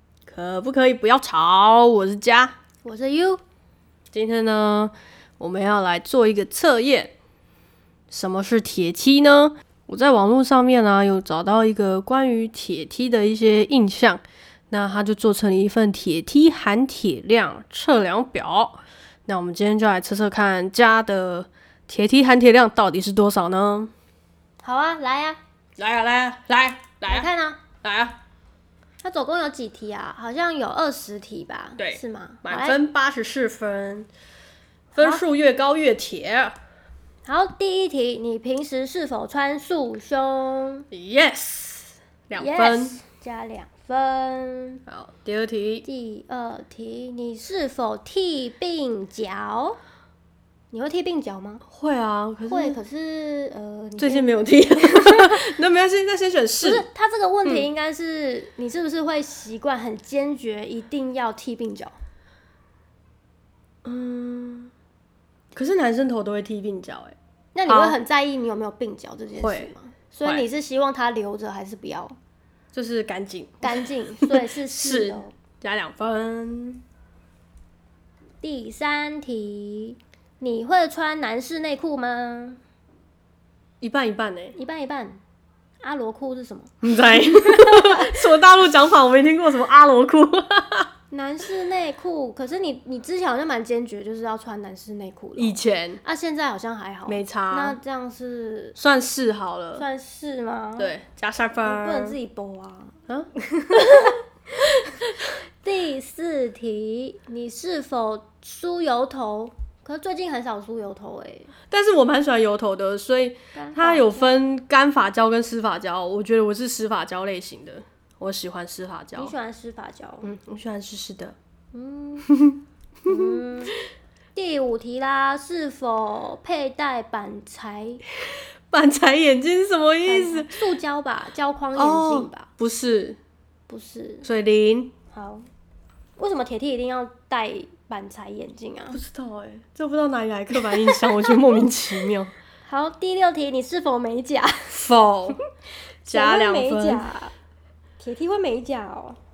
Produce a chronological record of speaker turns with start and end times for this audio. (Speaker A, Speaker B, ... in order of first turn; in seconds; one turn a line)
Speaker A: 0.3-2.5
Speaker B: 2.8-3.4
Speaker A: 4.1-7.1
Speaker A: 8.1-23.9
Speaker B: 24.6-25.4
Speaker A: 25.8-27.3
Speaker B: 27.1-27.6
Speaker A: 27.8-28.2
Speaker B: 29.0-32.8
Speaker A: 31.8-34.1
Speaker B: 35.0-35.2
Speaker A: 35.0-36.6
Speaker B: 37.2-40.9
Speaker A: 40.9-43.0
Speaker B: 42.4-44.8
Speaker A: 44.9-45.9
Speaker B: 45.8-49.8
Speaker B: 50.7-51.6
Speaker A: 51.7-52.8
Speaker B: 52.5-55.4
Speaker A: 54.0-56.9
Speaker B: 56.6-62.0
Speaker A: 63.9-64.7
Speaker A: 65.5-67.2
Speaker B: 67.5-72.2
Speaker A: 67.7-68.0
Speaker A: 69.4-69.7
Speaker A: 72.7-76.8
Speaker B: 73.6-75.3
Speaker B: 78.4-82.6
Speaker A: 83.8-84.6
Speaker B: 84.5-85.2
Speaker B: 85.8-88.2
Speaker A: 86.8-90.9
Speaker B: 91.1-98.8
Speaker A: 95.4-96.0
Speaker A: 97.1-97.8
Speaker A: 98.8-99.8
Speaker B: 99.8-100.9
Speaker A: 100.8-102.2
Speaker B: 101.6-103.0
Speaker A: 103.1-104.2
Speaker B: 103.7-105.1
Speaker B: 105.6-111.5
Speaker A: 111.7-119.3
Speaker B: 113.5-114.3
Speaker B: 119.2-120.3
Speaker A: 120.2-121.4
Speaker B: 121.7-122.3
Speaker A: 122.3-123.4
Speaker B: 123.0-123.8
Speaker B: 124.3-128.0
Speaker A: 128.7-130.6
Speaker B: 130.1-132.5
Speaker A: 131.8-133.2
Speaker B: 133.7-134.3
Speaker A: 134.2-134.9
Speaker B: 135.1-135.5
Speaker B: 136.2-139.0
Speaker A: 138.9-142.3
Speaker B: 140.6-141.4
Speaker B: 142.7-144.8
Speaker A: 144.7-145.4
Speaker A: 146.1-147.1
Speaker B: 146.1-147.3
Speaker B: 148.0-149.2